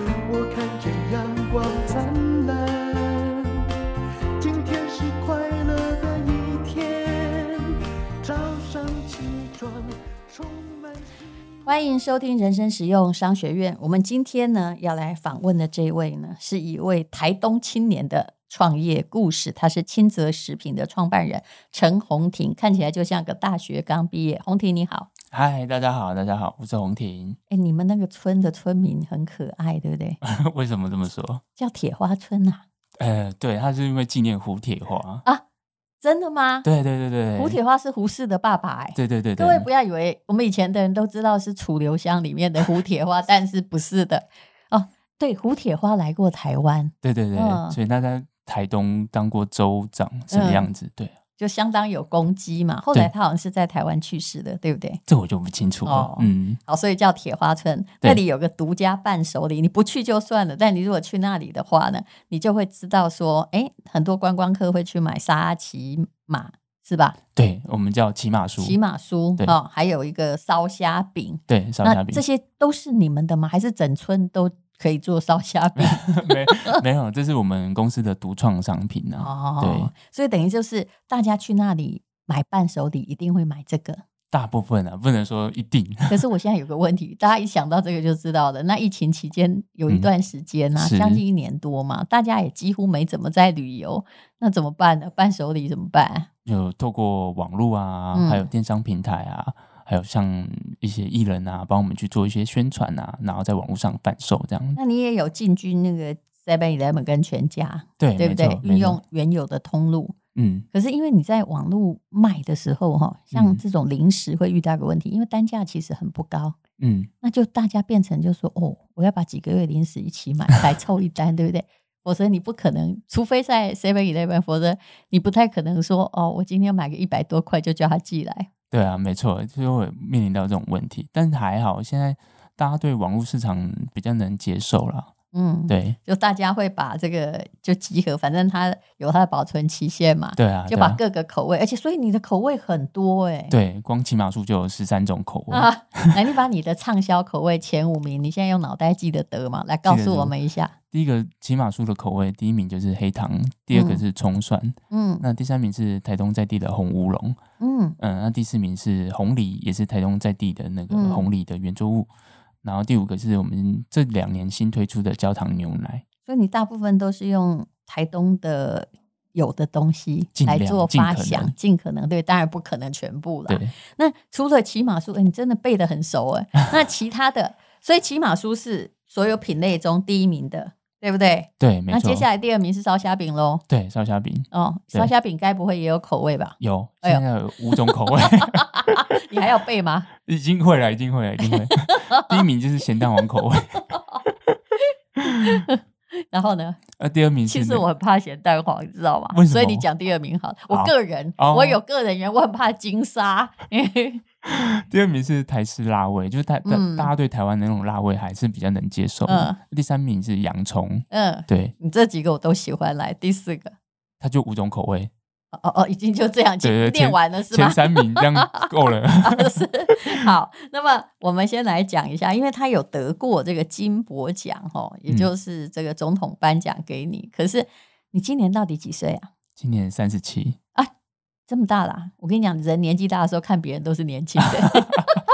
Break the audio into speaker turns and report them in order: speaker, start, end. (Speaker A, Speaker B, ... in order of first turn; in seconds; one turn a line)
Speaker A: 0.3-3.7
Speaker A: 4.4-11.2
Speaker B: 11.7-25.1
Speaker C: 25.3-27.4
Speaker B: 27.5-30.2
Speaker C: 30.2-31.4
Speaker B: 31.6-32.6
Speaker C: 33.0-35.2
Speaker B: 36.0-36.7
Speaker C: 36.6-37.6
Speaker B: 37.4-47.8
Speaker C: 39.0-39.7
Speaker C: 47.0-51.1
Speaker B: 50.3-50.7
Speaker B: 51.4-55.0
Speaker C: 55.1-56.6
Speaker B: 55.9-67.2
Speaker C: 67.3-68.8
Speaker B: 68.6-76.8
Speaker C: 71.5-72.2
Speaker C: 75.8-79.9
Speaker B: 79.2-84.0
Speaker C: 84.3-86.2
Speaker B: 86.1-96.3
Speaker C: 90.8-91.2
Speaker C: 96.5-104.8
Speaker B: 98.1-98.5
Speaker B: 104.8-110.2
Speaker C: 108.0-109.0
Speaker C: 110.3-110.7
Speaker B: 110.7-116.6
Speaker C: 113.3-113.6
Speaker C: 116.8-117.1
Speaker B: 117.2-128.5
Speaker C: 128.7-135.1
Speaker B: 135.3-143.5
Speaker C: 135.7-136.0
Speaker C: 140.4-141.0
Speaker C: 143.5-146.1
Speaker B: 145.5-150.7
Speaker C: 149.8-150.3
Speaker C: 150.9-157.4
Speaker B: 153.7-154.0
Speaker B: 154.9-155.2
Speaker B: 157.6-158.0
Speaker C: 158.0-162.1
Speaker B: 160.9-161.3
Speaker C: 162.6-166.0
Speaker B: 166.3-183.6
Speaker C: 170.3-171.5
Speaker C: 173.5-173.7
Speaker C: 181.6-182.3
Speaker C: 183.7-185.1
Speaker B: 184.5-187.2
Speaker C: 186.6-189.1
Speaker B: 187.7-190.1
Speaker C: 190.2-194.5
Speaker B: 191.4-192.4
Speaker B: 193.9-194.2
Speaker C: 195.3-195.6
Speaker B: 195.4-196.8
Speaker C: 197.0-197.8
Speaker B: 197.4-204.2
Speaker C: 199.3-199.9
Speaker C: 200.7-201.8
Speaker C: 204.4-211.7
Speaker B: 206.6-207.1
Speaker B: 209.2-209.6
Speaker B: 211.1-213.7
Speaker C: 214.2-215.1
Speaker B: 215.5-218.7
Speaker C: 216.6-220.3
Speaker B: 219.2-229.3
Speaker C: 229.6-230.6
Speaker B: 231.5-235.2